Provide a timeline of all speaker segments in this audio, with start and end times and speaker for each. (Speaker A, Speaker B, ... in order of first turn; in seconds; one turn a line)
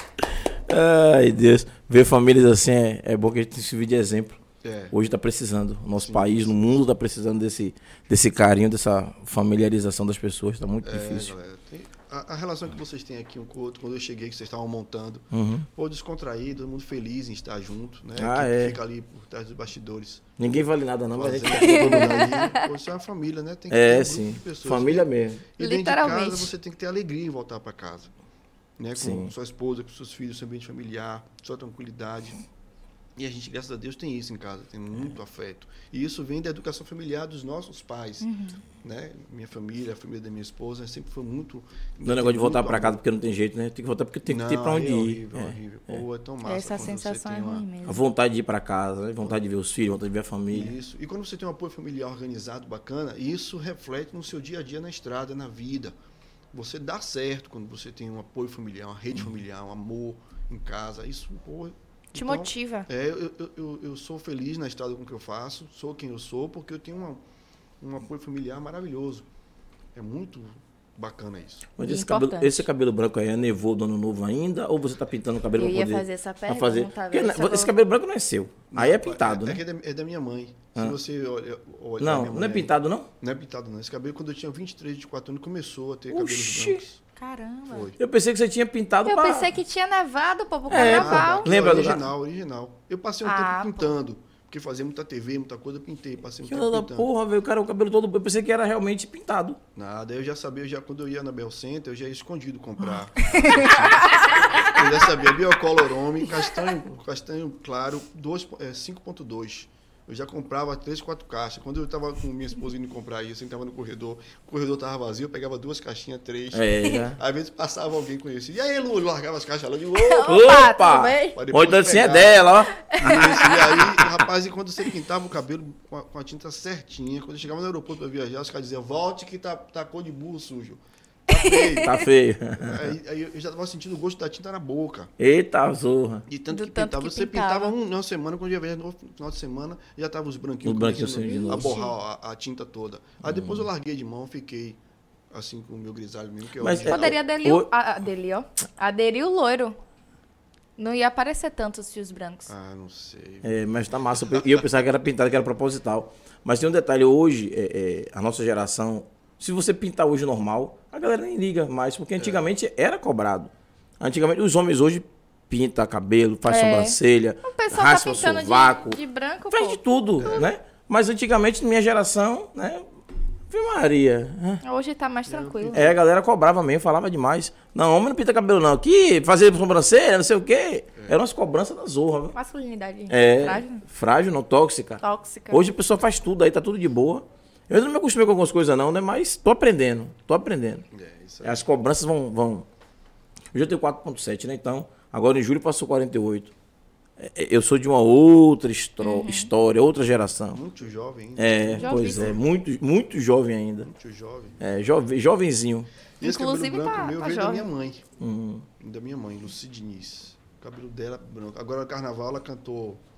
Speaker A: 0.2-4.4
Speaker B: 4.6-5.0
Speaker A: 4.9-11.3
Speaker B: 6.0-6.9
Speaker B: 10.8-20.4
Speaker A: 15.3-15.7
Speaker A: 18.2-18.8
Speaker A: 20.4-22.4
Speaker B: 21.1-28.1
Speaker C: 21.6-22.7
Speaker A: 23.7-25.4
Speaker C: 25.6-26.5
Speaker B: 28.8-32.4
Speaker A: 28.9-29.3
Speaker B: 33.2-38.3
Speaker C: 38.2-38.6
Speaker B: 38.8-43.0
Speaker A: 42.0-46.0
Speaker B: 44.2-47.7
Speaker C: 46.5-48.0
Speaker A: 47.9-50.8
Speaker B: 50.5-56.0
Speaker B: 56.5-67.2
Speaker C: 62.1-62.9
Speaker B: 67.8-69.3
Speaker B: 70.0-71.7
Speaker A: 71.8-79.6
Speaker C: 71.8-72.7
Speaker C: 75.6-77.7
Speaker B: 78.7-87.0
Speaker A: 82.0-83.1
Speaker A: 86.1-86.8
Speaker C: 87.2-87.9
Speaker B: 87.7-88.0
Speaker A: 88.0-89.5
Speaker C: 89.1-91.5
Speaker A: 90.7-92.1
Speaker B: 90.7-97.1
Speaker C: 93.2-94.0
Speaker A: 96.5-99.6
Speaker B: 99.8-120.5
Speaker C: 103.2-104.7
Speaker A: 116.5-117.2
Speaker C: 120.0-121.4
Speaker A: 120.2-124.2
Speaker B: 121.3-132.0
Speaker C: 122.8-123.6
Speaker C: 131.3-131.9
Speaker A: 131.8-133.0
Speaker B: 132.6-135.1
Speaker A: 135.2-136.3
Speaker B: 136.3-144.8
Speaker C: 136.5-137.7
Speaker A: 140.6-141.8
Speaker C: 141.3-141.9
Speaker A: 143.2-143.7
Speaker B: 145.3-147.2
Speaker A: 146.6-147.7
Speaker C: 146.9-149.8
Speaker C: 150.8-152.5
Speaker B: 152.5-153.6
Speaker A: 153.4-169.0
Speaker B: 154.3-154.6
Speaker B: 162.2-162.5
Speaker C: 166.5-170.4
Speaker A: 169.5-172.9
Speaker B: 170.2-170.5
Speaker A: 173.5-174.6
Speaker C: 174.6-175.8
Speaker B: 175.3-176.0
Speaker A: 175.7-182.3
Speaker C: 182.3-183.8
Speaker A: 183.1-190.9
Speaker C: 185.0-185.7
Speaker B: 190.9-191.7
Speaker A: 191.4-192.7
Speaker A: 193.5-196.5
Speaker A: 197.2-200.6
Speaker C: 199.0-199.5
Speaker B: 200.5-202.4
Speaker A: 201.4-203.9
Speaker C: 201.8-202.3
Speaker B: 203.8-204.6
Speaker A: 204.6-205.9
Speaker B: 206.2-208.1
Speaker C: 206.2-207.7
Speaker A: 208.2-208.7
Speaker B: 208.8-213.0